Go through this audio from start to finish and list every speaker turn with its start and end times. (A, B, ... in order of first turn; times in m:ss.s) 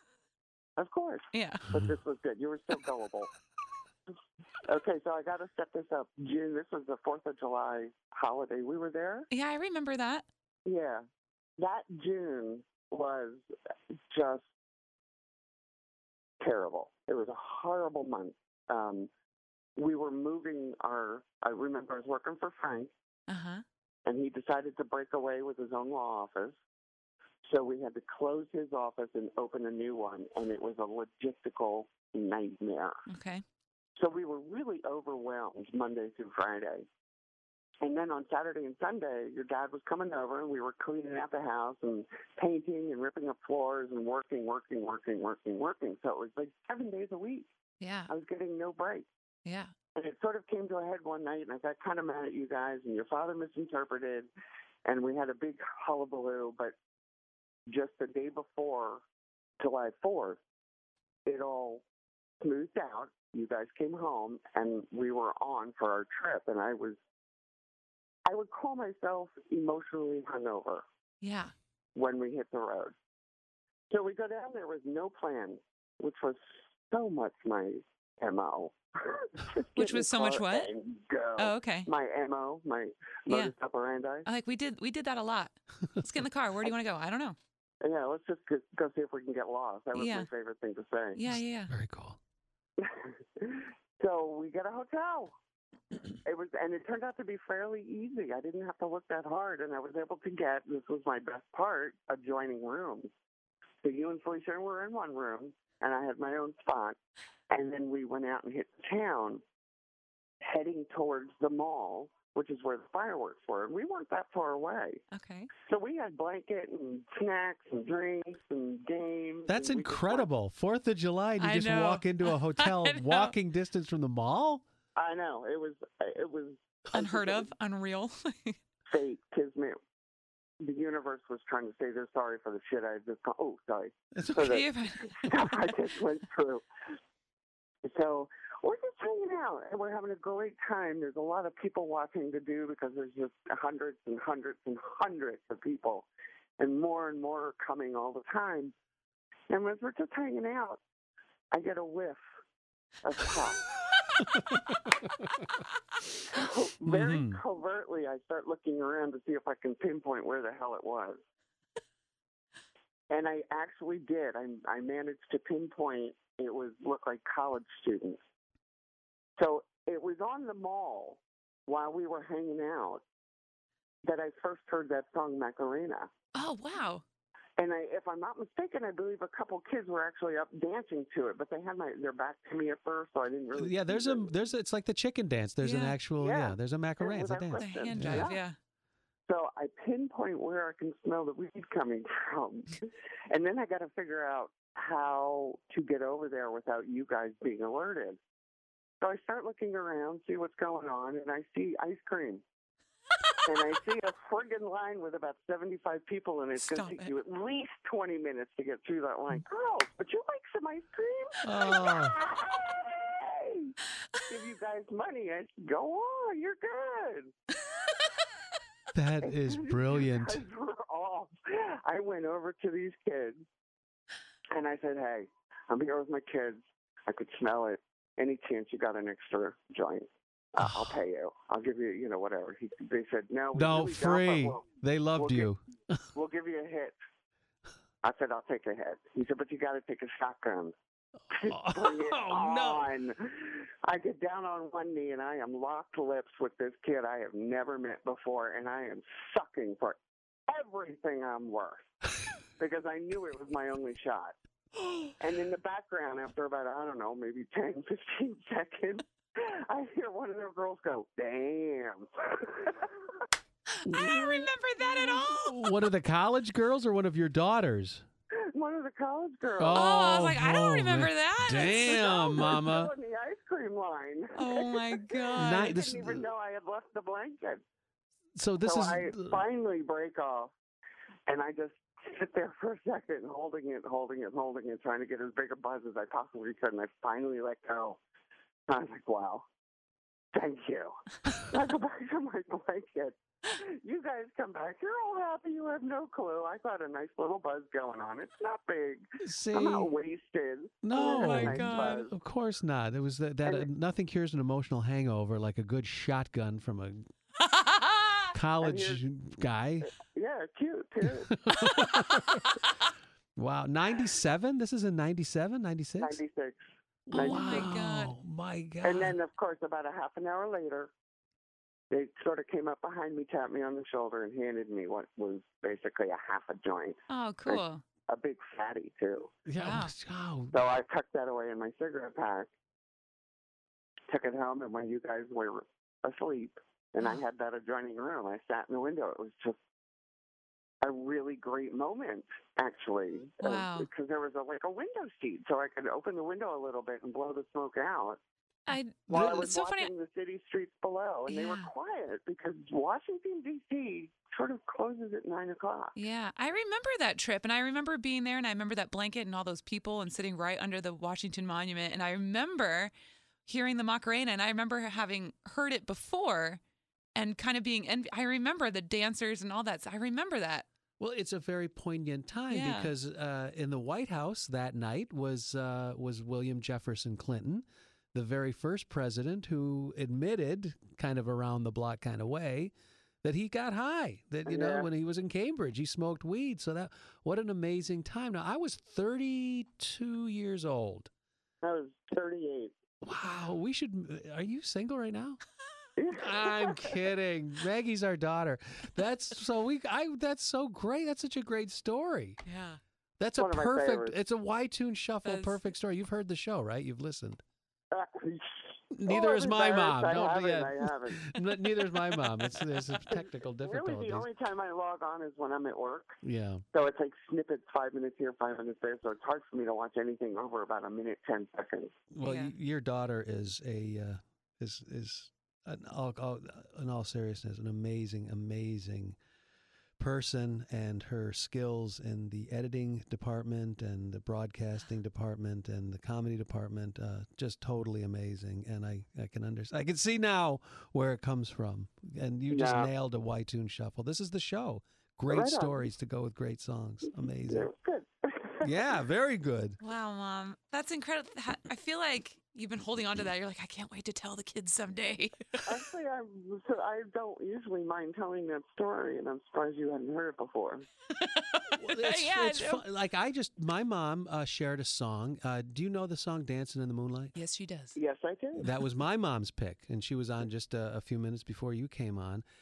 0:00.8-0:03.3 A
0:01.3-0:01.7 B
0:04.6-0:09.3 A
0:09.3-0:10.2 B
0:10.6-0:11.0 A
0:11.6-0:13.4 A
0:14.1-0:14.5 A
0:16.4-0:19.1 A
0:19.8-0:22.9 A
0:23.3-0:23.6 B
0:24.0-0:26.6 A
0:27.4-0:33.0 A
0:33.1-0:33.4 B
0:34.0-0:36.9 A
0:37.8-0:47.5 A
0:47.8-0:48.1 B
0:48.1-0:49.1 A
0:49.4-0:49.7 B
0:49.9-0:54.3 A
0:54.8-0:56.7 A
0:57.7-0:59.0 A
0:59.6-1:00.4 A
1:01.2-1:01.8 A
1:02.4-1:07.0 A
1:08.2-1:10.8 A
1:11.2-1:11.5 B
1:11.9-1:12.9 A
1:13.9-1:24.2 A
1:19.8-1:20.7 B
1:21.4-1:21.9 B
1:24.2-1:27.4 B
1:27.8-1:31.2 A
1:29.9-1:30.3 B
1:31.1-1:31.7 B
1:31.3-1:32.2 C
1:32.8-1:35.3 A
1:36.2-1:43.1 A
1:43.8-1:47.0 A
1:47.5-1:49.4 A
1:50.4-1:55.0 A
1:55.1-1:55.5 B
1:55.6-2:00.3 A
1:59.5-2:04.6 C
2:01.4-2:03.3 B
2:05.0-2:07.5 A
2:06.9-2:08.6 B
2:08.9-2:09.8 A
2:10.6-2:16.6 A
2:14.1-2:14.6 C
2:14.4-2:15.1 B
2:17.8-2:26.1 A
2:26.6-2:28.7 A
2:29.5-2:30.8 A
2:31.5-2:32.2 A
2:33.0-2:33.6 A
2:34.3-2:34.6 C
2:36.2-2:41.2 A
2:36.8-2:37.4 C
2:43.1-2:48.2 A
2:49.4-2:53.0 A
2:54.0-2:56.1 A
2:56.3-2:57.0 B
2:57.6-3:04.3 A
3:03.5-3:08.3 C
3:05.6-3:06.0 B
3:06.2-3:08.4 A
3:07.6-3:08.6 B
3:09.3-3:18.2 A
3:19.0-3:22.4 A
3:23.4-3:33.8 A
3:26.6-3:27.1 B
3:31.4-3:32.2 C
3:34.3-3:37.3 A
3:38.9-3:40.4 C
3:39.2-3:43.4 A
3:44.5-3:54.6 A
3:50.6-3:51.0 C
3:53.5-3:56.0 C
3:55.2-3:55.5 A
3:56.1-3:57.0 A
3:58.0-4:00.7 A
4:01.3-4:02.9 C
4:01.3-4:11.8 A
4:12.6-4:14.3 A
4:15.2-4:23.2 A
4:23.7-4:25.8 B
4:23.8-4:28.0 C
4:28.3-4:29.8 A
4:29.6-4:32.9 C
4:29.7-4:32.4 B
4:31.6-4:37.6 A
4:34.4-4:35.8 B
4:35.4-4:36.2 C
4:38.4-4:39.4 C
4:38.6-4:40.5 A
4:41.3-4:48.0 A
4:48.7-4:49.4 A
4:50.3-5:02.1 A
4:59.2-4:59.9 C
5:00.8-5:07.1 C
5:00.9-5:02.0 B
5:07.4-5:08.3 B
5:08.3-5:09.9 C
5:08.6-5:09.0 A
5:10.0-5:11.4 A
5:11.0-5:12.5 C
5:13.4-5:16.2 C
5:16.0-5:17.7 A
5:17.1-5:19.2 C
5:17.1-5:18.1 B
5:18.8-5:20.9 A
5:21.9-5:29.3 A
5:27.1-5:27.8 B
5:29.5-5:30.6 C
5:29.6-5:29.9 B
5:30.5-5:32.5 A
5:34.1-5:39.6 A
5:40.8-5:48.2 A
5:43.4-5:43.9 B
5:48.7-5:49.9 B
5:49.1-5:55.9 A
5:51.3-5:51.7 B
5:55.9-6:02.9 B
6:03.4-6:06.6 B
6:07.2-6:10.7 B
6:11.0-6:31.1 C
6:12.5-6:12.9 B
6:24.5-6:24.9 A
6:31.6-6:32.8 A
6:33.0-6:35.4 C
6:36.0-6:36.9 A
6:36.1-6:42.4 C
6:42.4-6:42.8 B
6:43.2-6:47.4 C
6:43.4-6:44.2 A
6:45.2-6:45.7 B
6:47.9-6:51.3 A
6:48.9-6:54.3 C
6:53.1-6:56.2 A
6:56.2-6:56.6 C
6:56.7-7:01.9 A
7:02.1-7:09.2 C
7:02.2-7:02.5 B
7:10.0-7:27.7 C
7:22.5-7:22.9 A
7:25.3-7:25.8 A
7:27.5-7:28.7 A
7:28.6-7:29.8 C
7:29.8-7:35.8 B
7:35.6-7:40.9 A
7:41.1-7:42.8 B
7:41.7-7:47.3 C
7:47.4-7:48.0 B
7:47.9-7:48.7 A
7:48.6-7:52.4 C